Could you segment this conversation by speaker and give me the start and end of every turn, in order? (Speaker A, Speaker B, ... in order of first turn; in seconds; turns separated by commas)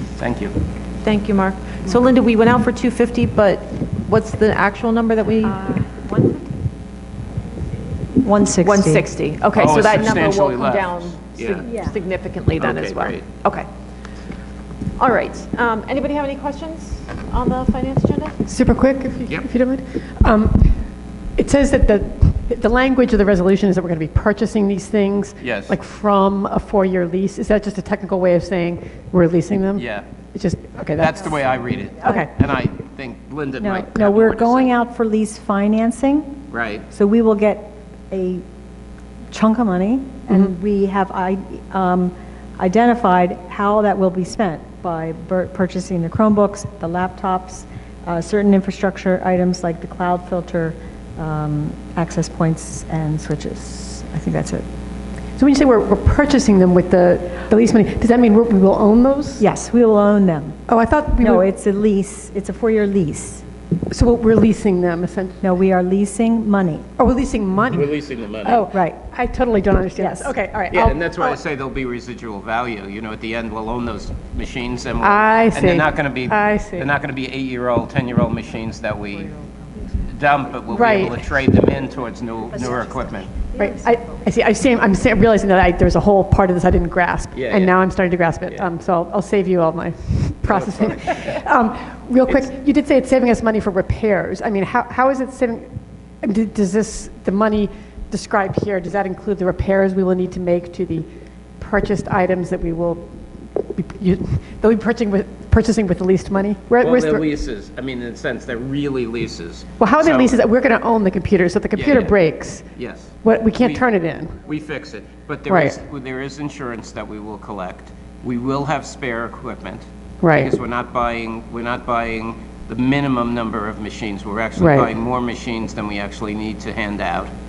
Speaker A: 0.1-0.6, Speaker B: 1.0-5.7, Speaker C: 5.4-6.4, Speaker C: 8.2-9.1, Speaker B: 8.6-13.7, Speaker A: 9.5-11.7, Speaker C: 11.6-12.0, Speaker A: 12.6-13.2, Speaker B: 15.0-18.4, Speaker D: 18.4-20.8, Speaker D: 21.4-31.2, Speaker A: 25.4-25.8, Speaker A: 29.7-30.1, Speaker A: 30.9-34.7, Speaker D: 32.0-32.3, Speaker C: 33.6-36.3, Speaker A: 36.5-36.9, Speaker C: 36.9-38.4, Speaker C: 39.3-54.6, Speaker D: 55.4-59.4, Speaker C: 59.4-60.6, Speaker D: 60.7-61.4, Speaker C: 61.2-63.4, Speaker D: 63.9-65.4, Speaker C: 65.4-66.8, Speaker D: 67.0-67.9, Speaker A: 67.7-68.6, Speaker D: 68.4-71.4, Speaker C: 68.7-69.0, Speaker C: 70.0-70.3, Speaker A: 70.7-79.4, Speaker D: 75.0-76.9, Speaker A: 80.1-83.4, Speaker D: 80.7-81.2, Speaker D: 83.5-95.7, Speaker A: 87.3-87.8, Speaker A: 90.5-91.4, Speaker D: 96.2-101.1, Speaker D: 101.6-103.1, Speaker D: 103.7-107.2, Speaker A: 106.8-110.4, Speaker D: 109.8-112.6, Speaker A: 111.7-112.2, Speaker A: 112.7-113.8, Speaker D: 113.2-114.3, Speaker A: 114.4-127.3, Speaker D: 115.5-115.8, Speaker D: 120.2-120.5, Speaker D: 124.6-124.9